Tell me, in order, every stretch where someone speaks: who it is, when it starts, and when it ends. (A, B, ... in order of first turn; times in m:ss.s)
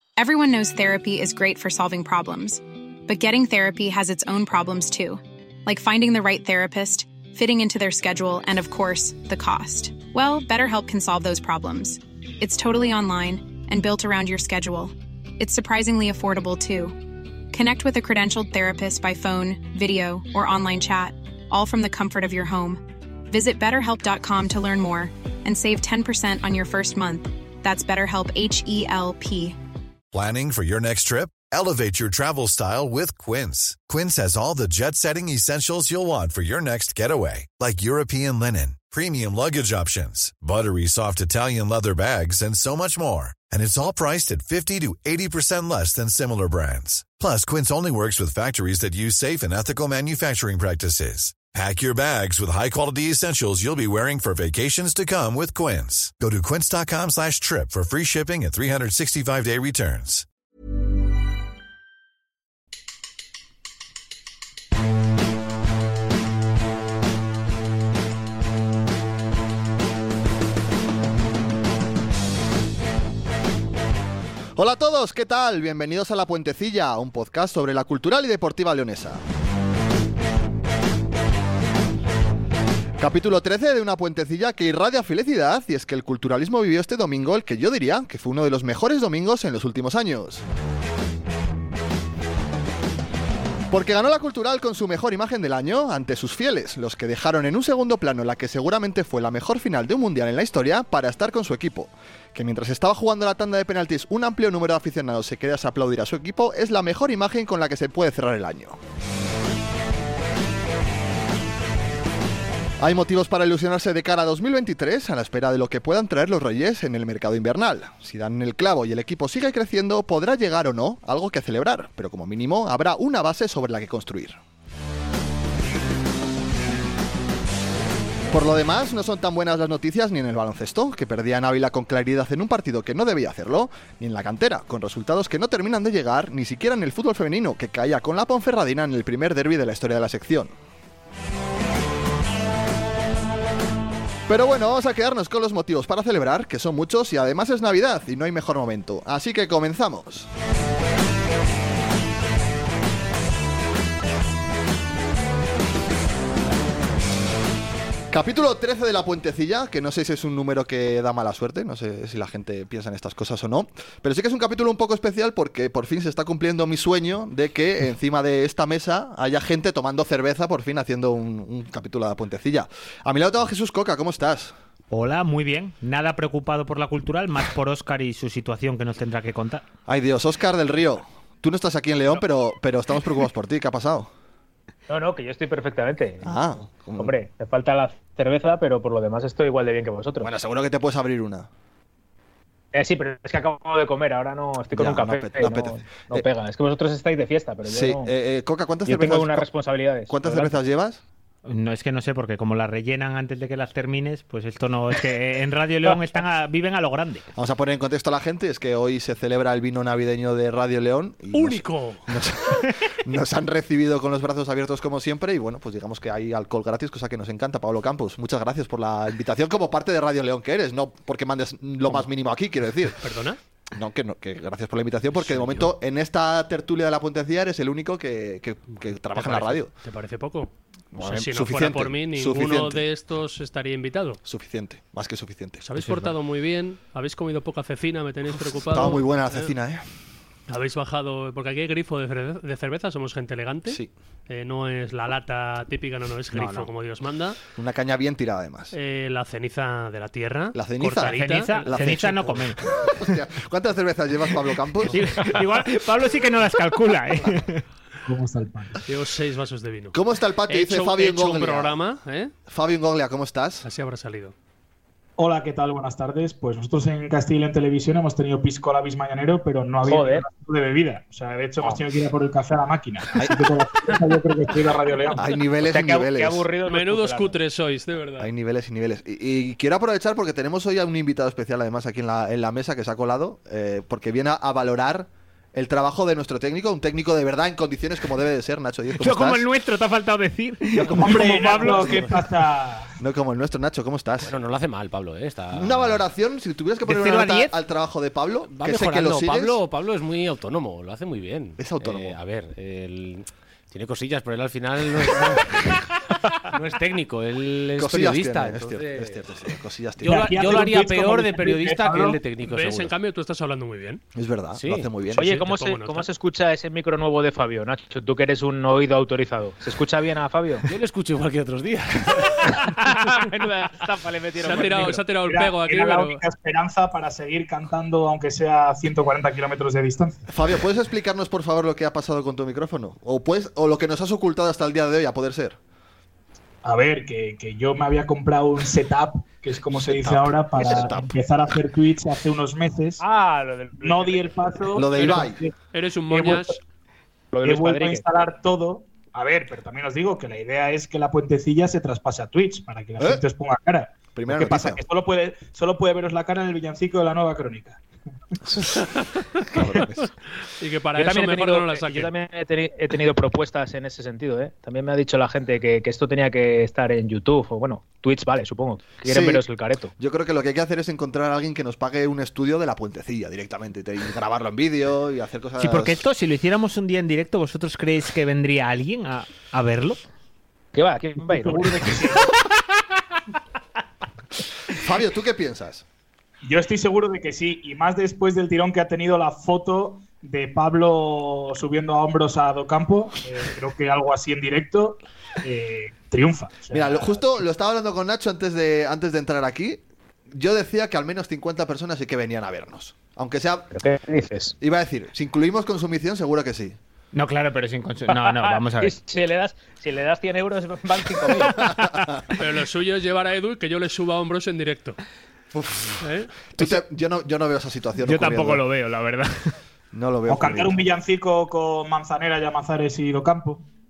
0:00.2-0:29.6 A
0:30.1-1:00.3 B
1:14.6-1:19.2 C
1:23.0-1:30.4 C
1:33.7-1:48.8 C
1:52.8-2:04.4 C
2:08.3-2:20.5 C
2:24.3-2:30.3 C
2:38.1-2:54.6 C
2:54.9-2:59.7 D
2:59.9-3:04.1 C
3:04.9-3:06.3 E
3:06.2-3:07.1 C
3:07.0-3:10.3 E
3:10.2-3:11.5 C
3:12.7-3:18.1 E
3:14.7-3:16.2 C
3:17.7-3:19.5 C
3:18.8-3:20.6 E
3:20.1-3:21.0 C
3:21.5-3:27.3 D
3:27.4-3:43.0 C
3:31.3-3:32.1 F
3:43.0-3:43.4 F
3:43.8-3:49.7 C
3:45.3-3:45.7 F
3:49.1-3:54.2 F
3:50.9-3:52.8 C
3:54.2-3:56.1 C
3:55.6-3:59.5 F
3:58.5-3:59.9 C
4:00.5-4:07.4 F
4:06.3-4:06.7 D
4:07.6-4:08.8 C
4:08.7-4:12.1 F
4:10.5-4:15.1 C
4:11.0-4:13.2 D
4:14.9-4:17.6 D
4:18.1-4:18.8 G
4:18.9-4:22.3 F
4:19.9-4:21.8 C
4:22.5-4:23.6 C
4:23.6-4:24.3 F
4:25.2-4:35.2 G
4:29.9-4:30.3 E
4:35.2-4:36.5 C
4:35.6-4:37.4 E
4:36.7-4:38.3 F
4:38.2-4:49.4 C
4:49.0-4:52.2 D
4:50.8-4:53.0 G
4:53.0-4:54.3 C
4:54.3-4:56.1 H
4:55.5-4:59.6 C
4:56.9-4:57.5 D
4:58.5-5:05.8 H
5:01.6-5:02.2 C
5:06.4-5:09.2 H
5:07.8-5:10.3 C
5:10.0-5:12.2 G
5:10.1-5:12.2 D
5:10.4-5:10.7 H
5:11.9-5:13.0 H
5:12.4-5:14.0 F
5:14.2-5:15.3 C
5:14.5-5:14.9 H
5:15.1-5:20.6 E
5:15.2-5:16.1 F
5:20.6-5:22.3 H
5:22.5-5:25.0 E
5:24.4-5:26.2 F
5:24.6-5:30.3 G
5:30.3-5:35.6 C
5:36.6-5:43.0 G
5:39.8-5:41.1 C
5:43.0-5:44.6 E
5:43.8-5:45.5 G
5:44.7-5:45.4 C
5:45.7-5:46.6 F
5:46.1-5:46.6 G
5:47.3-5:48.0 E
5:47.4-5:57.8 G
5:54.2-5:54.8 C
5:58.5-5:58.8 C
5:59.5-6:00.2 C
5:59.6-5:59.9 F
6:00.6-6:02.1 F
6:01.0-6:09.9 E
6:09.0-6:09.4 C
6:10.0-6:16.0 C
6:15.6-6:20.0 D
6:20.7-6:22.1 E
6:21.2-6:22.3 G
6:24.7-6:25.8 C
6:26.4-6:37.4 G
6:36.7-6:43.7 C
6:43.7-6:44.6 E
6:44.6-6:46.8 C
6:47.1-6:49.0 D
6:48.1-6:51.6 E
6:51.6-6:52.0 D
6:52.4-6:55.0 F
6:55.5-6:56.0 C
6:56.0-6:56.5 F
6:56.6-6:58.6 C
6:58.0-6:59.5 D
6:59.9-7:00.8 C
7:00.3-7:03.6 G